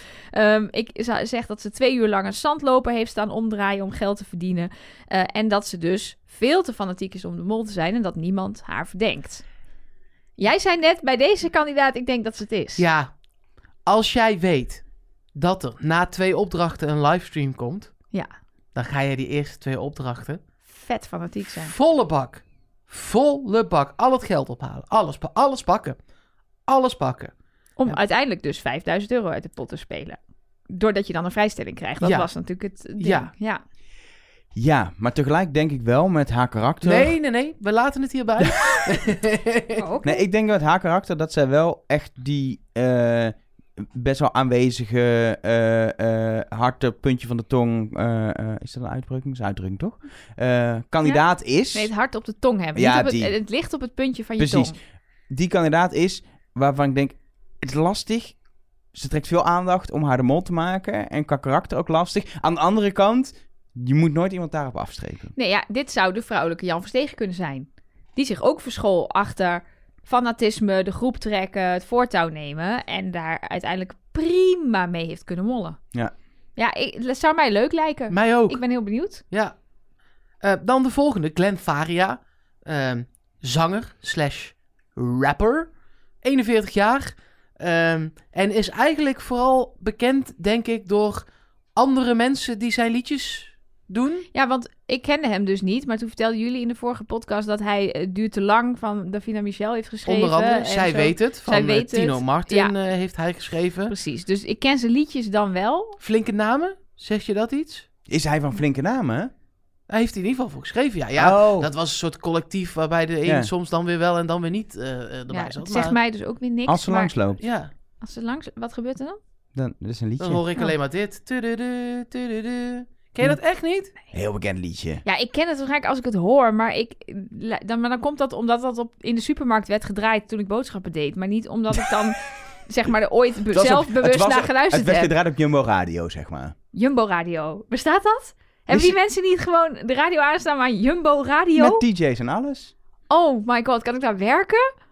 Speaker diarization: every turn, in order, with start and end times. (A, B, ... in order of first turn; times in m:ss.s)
0:00.3-0:09.4 A
0:10.4-0:12.9 A
0:12.8-0:13.1 B
0:13.9-0:14.8 B
0:15.4-0:17.9 B
0:18.8-0:20.4 B
0:20.7-0:21.7 A
0:21.6-0:26.0 B
0:26.7-0:27.3 B
0:27.8-0:30.2 A
0:30.7-0:33.6 A
0:32.0-0:32.3 B
0:33.0-0:33.3 B
0:34.6-0:37.1 C
0:36.8-0:39.8 B
0:39.8-0:40.2 A
0:40.0-0:51.9 C
0:51.0-0:54.8 A
0:52.8-0:53.3 C
0:54.4-0:54.8 C
0:55.3-0:58.4 C
0:58.9-1:05.3 C
1:05.4-1:15.8 A
1:16.6-1:19.2 A
1:18.1-1:18.6 B
1:19.3-1:19.6 B
1:20.4-1:25.7 B
1:26.2-1:34.3 B
1:34.3-1:42.7 A
1:40.1-1:43.9 B
1:43.9-1:46.0 A
1:46.0-1:47.9 B
1:48.1-1:49.3 C
1:49.9-1:56.0 B
1:51.2-1:51.7 C
1:53.2-1:53.5 C
1:55.3-1:57.1 A
1:56.7-1:57.4 C
1:57.4-1:57.7 B
1:58.0-1:59.2 A
1:59.6-2:00.4 C
2:00.2-2:03.9 B
2:04.1-2:05.0 C
2:05.0-2:15.1 A
2:13.5-2:16.6 C
2:16.7-2:21.8 A
2:18.7-2:19.0 C
2:21.6-2:22.7 C
2:23.1-2:24.7 A